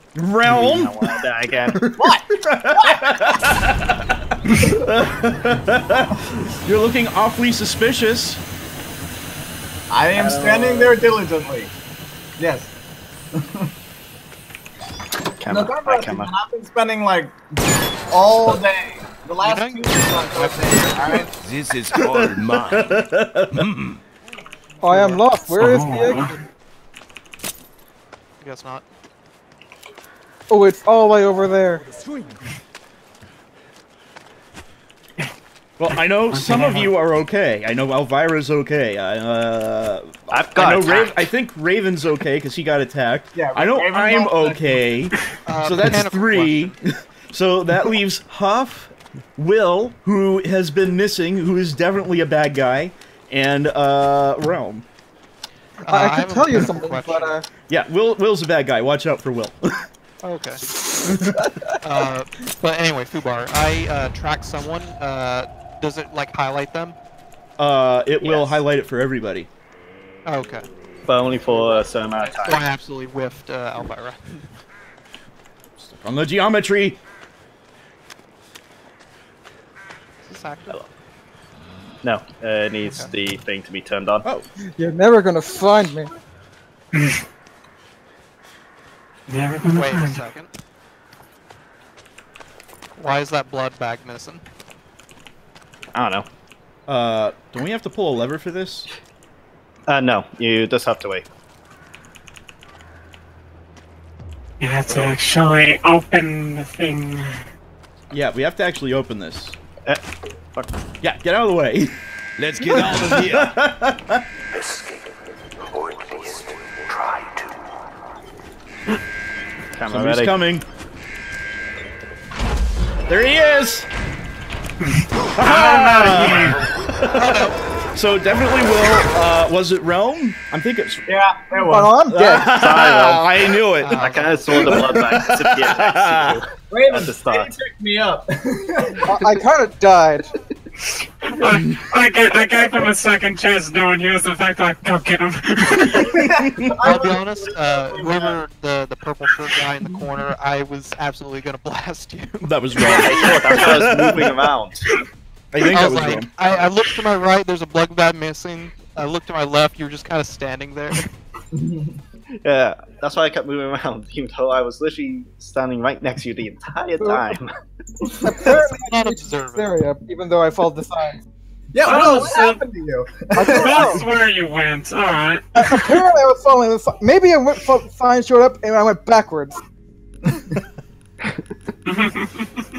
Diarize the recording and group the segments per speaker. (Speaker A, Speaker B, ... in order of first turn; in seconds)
Speaker A: 0.1-1.2, 1.7-8.4, 21.9-23.7, 35.8-54.9, 57.7-59.9, 67.6-69.5, 75.8-77.0, 96.9-98.9, 108.1-109.6, 111.0-112.0, 112.6-114.2, 119.9-120.6, 123.1-123.9, 125.4-131.1, 132.1-134.0, 134.5-136.4, 141.5-141.8, 146.0-146.7, 152.4-154.5, 155.5-156.3
Speaker B: 0.4-1.9, 10.2-11.1, 15.4-16.3, 40.3-41.2, 68.2-68.6, 71.1-72.7, 82.0-84.3, 95.9-96.3, 99.9-101.2, 104.9-105.2, 119.7-120.3, 132.4-137.5, 152.9-154.9, 162.4-167.5
Speaker C: 1.9-3.1, 9.9-11.7, 12.4-12.7, 13.3-13.7, 15.5-17.4, 18.1-21.3, 43.4-44.8, 131.1-132.4, 136.7-139.1, 146.1-148.4, 161.5-162.0, 171.7-174.0
Speaker D: 19.4-21.3, 24.9-25.3, 28.4-28.9, 45.5-46.8, 55.8-57.4, 60.2-60.7, 61.8-67.0, 70.2-70.7, 72.2-74.5, 80.2-80.8, 82.8-83.1, 89.7-90.5, 93.0-94.4, 127.2-127.5, 133.8-134.8, 146.8-152.4, 155.7-161.1, 168.4-169.8
Speaker E: 21.4-23.0, 23.5-24.0, 112.4-113.6, 115.8-117.5
Speaker F: 24.8-26.3, 30.5-31.8, 55.9-57.5, 84.7-86.1, 131.6-132.5, 139.0-140.3, 167.0-167.3, 168.2-171.2, 173.4-174.0, 175.6-179.6
Speaker G: 25.5-26.4, 36.3-36.9, 86.9-87.2, 89.3-90.1, 104.6-107.4, 125.4-126.6, 140.9-146.1, 171.8-172.6, 173.4-175.8, 181.9-182.3